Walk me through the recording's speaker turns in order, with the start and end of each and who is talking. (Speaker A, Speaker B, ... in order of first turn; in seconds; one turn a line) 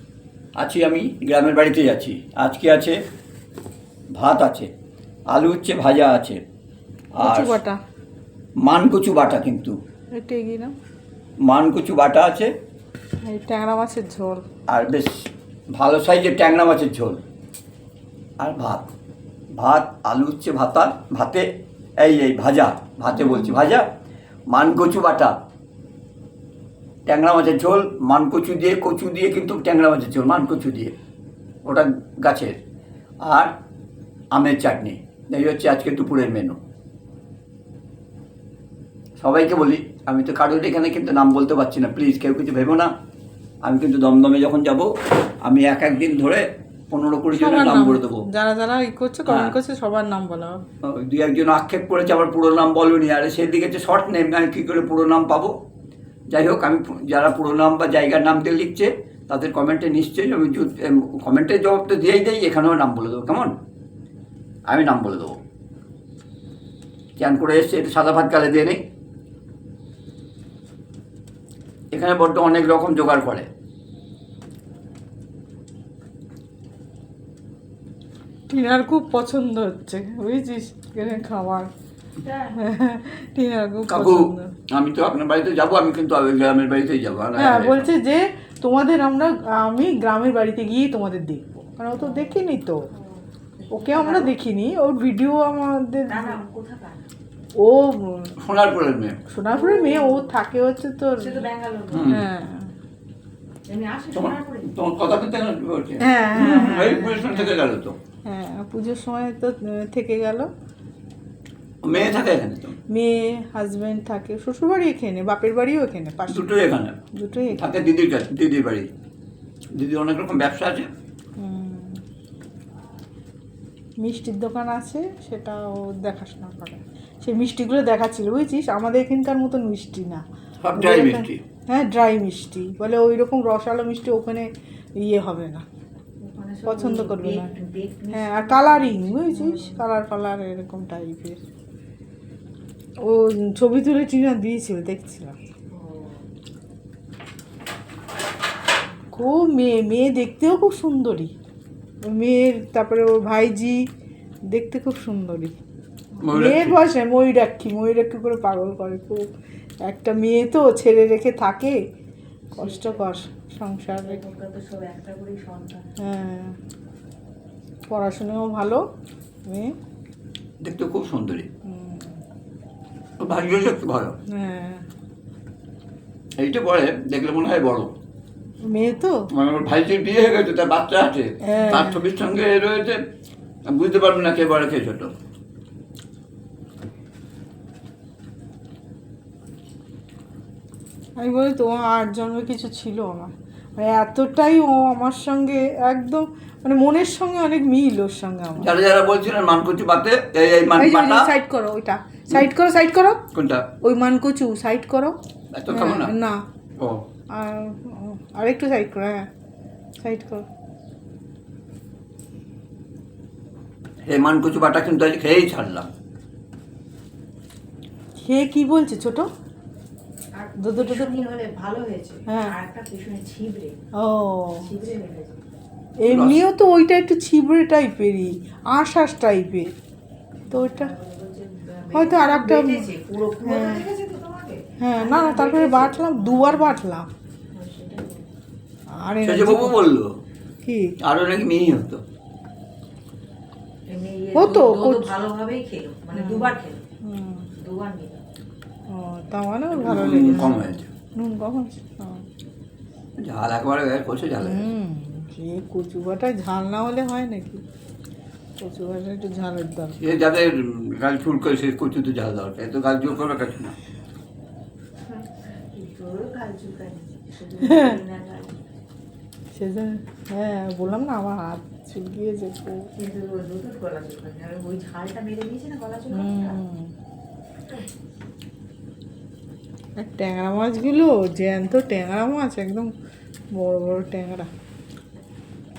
Speaker A: 0.6-3.0
Speaker A: 4.1-4.7
Speaker A: 5.3-6.4
Speaker A: 7.2-7.5
Speaker B: 7.2-7.8
Speaker A: 8.6-9.8
Speaker B: 10.1-10.7
Speaker A: 11.4-12.5
Speaker B: 13.2-14.4
Speaker A: 14.7-17.2
Speaker A: 18.4-18.9
Speaker A: 19.5-21.5
Speaker A: 22.0-23.9
Speaker B: 23.1-23.6
Speaker A: 24.5-25.3
Speaker A: 27.1-30.9
Speaker A: 31.6-32.5
Speaker A: 33.2-33.5
Speaker A: 34.3-36.6
Speaker A: 39.2-42.9
Speaker A: 43.6-44.9
Speaker A: 45.4-48.2
Speaker B: 47.3-50.6
Speaker A: 49.3-49.5
Speaker A: 50.8-55.5
Speaker A: 56.3-63.5
Speaker A: 64.7-65.3
Speaker A: 67.2-68.8
Speaker A: 71.9-73.5
Speaker B: 78.5-81.7
Speaker C: 82.2-82.6
Speaker B: 82.5-84.5
Speaker A: 83.9-87.9
Speaker B: 87.3-92.8
Speaker C: 92.0-92.4
Speaker C: 92.9-94.3
Speaker B: 93.7-96.4
Speaker C: 96.1-97.1
Speaker B: 97.6-98.3
Speaker A: 98.4-99.2
Speaker B: 99.3-101.5
Speaker C: 99.5-100.3
Speaker C: 101.2-102.2
Speaker A: 101.9-102.2
Speaker B: 102.1-102.7
Speaker C: 103.7-104.8
Speaker A: 104.1-108.0
Speaker B: 106.0-107.5
Speaker B: 108.2-110.5
Speaker A: 111.8-112.8
Speaker B: 112.9-116.5
Speaker A: 116.3-117.0
Speaker B: 117.1-117.6
Speaker A: 117.5-118.9
Speaker A: 119.7-120.9
Speaker B: 121.4-122.0
Speaker B: 124.0-130.2
Speaker A: 130.6-131.4
Speaker B: 130.8-134.5
Speaker B: 135.0-135.6
Speaker C: 136.2-139.8
Speaker B: 136.7-137.5
Speaker B: 138.1-141.4
Speaker B: 143.0-145.4
Speaker C: 145.7-146.2
Speaker B: 149.1-151.3
Speaker B: 152.1-153.8
Speaker B: 154.5-155.5
Speaker A: 156.2-156.8
Speaker B: 156.3-159.2
Speaker B: 159.8-161.8
Speaker C: 162.5-163.2
Speaker B: 162.6-164.2
Speaker C: 163.9-165.9
Speaker B: 166.0-166.6
Speaker B: 167.9-168.8
Speaker B: 169.5-169.7
Speaker A: 170.6-171.5
Speaker B: 171.7-172.2
Speaker A: 173.2-174.2
Speaker B: 174.3-174.8
Speaker A: 176.4-177.9
Speaker B: 178.6-179.2
Speaker A: 179.3-183.0
Speaker B: 181.4-182.1
Speaker A: 183.7-185.1
Speaker B: 191.2-198.7
Speaker A: 198.6-201.3
Speaker B: 200.7-203.2
Speaker A: 203.3-203.7
Speaker B: 203.8-205.2
Speaker A: 205.5-206.1
Speaker B: 205.7-206.4
Speaker B: 207.3-209.2
Speaker B: 210.0-210.4
Speaker A: 214.0-215.9
Speaker B: 218.2-219.3
Speaker C: 220.3-223.8
Speaker B: 220.6-221.2
Speaker B: 222.3-222.5
Speaker B: 223.9-224.7
Speaker C: 224.6-225.4
Speaker B: 226.0-229.7
Speaker A: 226.1-226.4
Speaker C: 230.4-236.8
Speaker B: 230.5-230.9
Speaker B: 231.9-232.9
Speaker B: 233.4-233.9
Speaker B: 234.8-237.1
Speaker C: 237.5-238.3
Speaker B: 239.0-239.8
Speaker A: 239.2-240.1
Speaker B: 240.6-240.9
Speaker A: 241.0-242.0
Speaker C: 243.9-246.8
Speaker B: 244.3-245.1
Speaker B: 246.1-247.5
Speaker C: 247.6-248.2
Speaker B: 248.9-252.2
Speaker A: 249.7-250.9
Speaker A: 253.2-254.7
Speaker B: 254.4-257.6
Speaker B: 258.6-260.0
Speaker A: 260.0-263.7
Speaker C: 265.0-268.5
Speaker B: 267.6-268.0
Speaker B: 269.5-272.9
Speaker C: 272.9-276.6
Speaker B: 276.1-276.9
Speaker B: 280.0-282.9
Speaker B: 283.5-284.5